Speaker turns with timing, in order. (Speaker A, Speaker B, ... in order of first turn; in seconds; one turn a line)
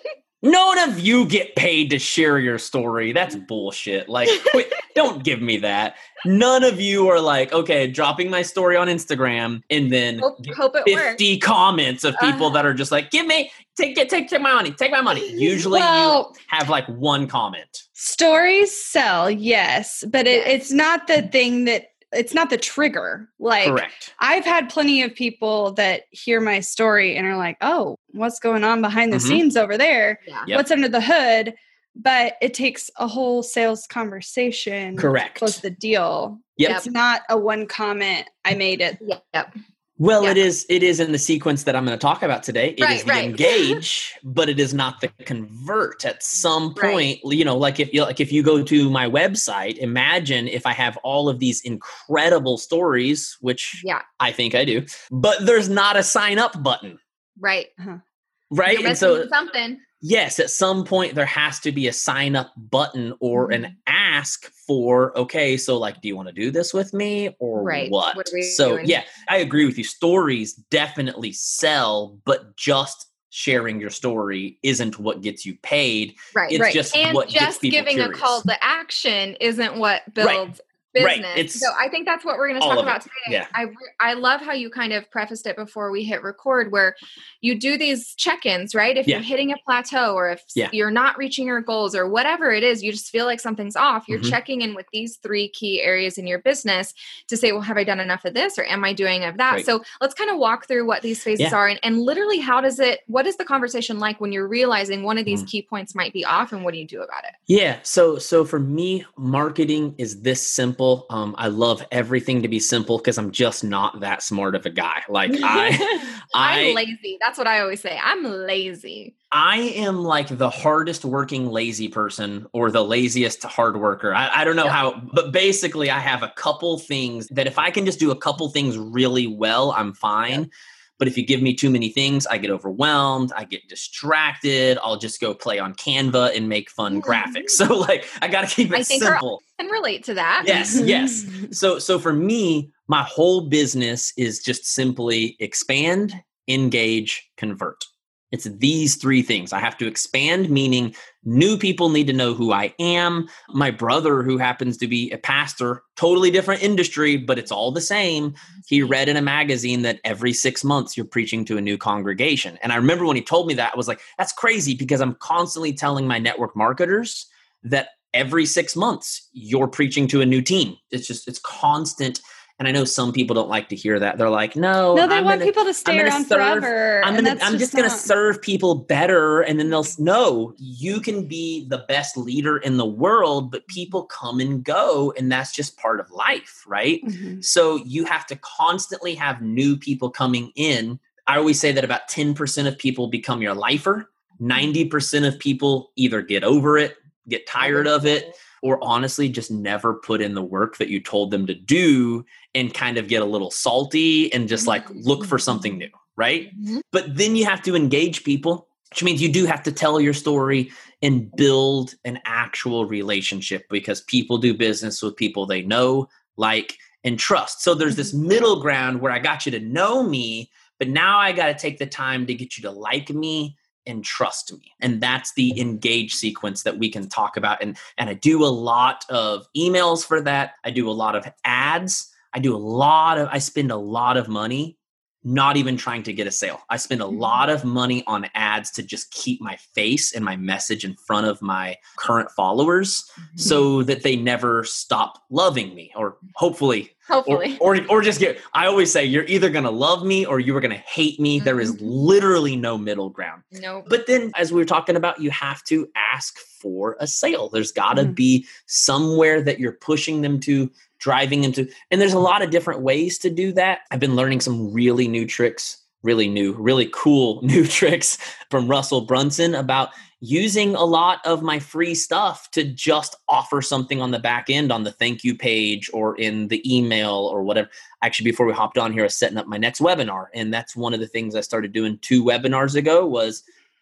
Speaker A: 0.4-17.9
Speaker B: 4.3-4.6
Speaker B: 10.2-11.2
Speaker B: 12.2-12.6
Speaker C: 15.3-16.3
Speaker C: 18.0-39.0
Speaker B: 20.3-20.6
Speaker A: 23.6-24.1
Speaker A: 29.1-29.4
Speaker A: 35.0-35.6
Speaker A: 36.6-36.8
Speaker B: 39.0-39.5
Speaker A: 40.0-57.0
Speaker B: 42.8-43.8
Speaker B: 46.8-47.1
Speaker B: 57.4-57.7
Speaker A: 58.5-59.3
Speaker B: 58.7-59.8
Speaker A: 60.0-78.4
Speaker B: 67.6-69.0
Speaker B: 76.3-107.4
Speaker A: 80.2-80.5
Speaker A: 81.0-81.7
Speaker A: 82.6-83.5
Speaker A: 94.1-94.4
Speaker A: 107.5-116.8
Speaker B: 115.3-119.1
Speaker A: 119.3-139.4
Speaker B: 137.0-137.4
Speaker B: 138.7-140.8
Speaker A: 140.4-283.4
Speaker C: 140.8-141.5
Speaker B: 158.6-158.9
Speaker C: 174.9-178.1
Speaker C: 187.0-187.4
Speaker B: 197.6-198.3
Speaker B: 204.6-205.3
Speaker B: 206.5-206.8
Speaker B: 247.1-247.6
Speaker B: 251.4-251.9
Speaker B: 253.5-253.9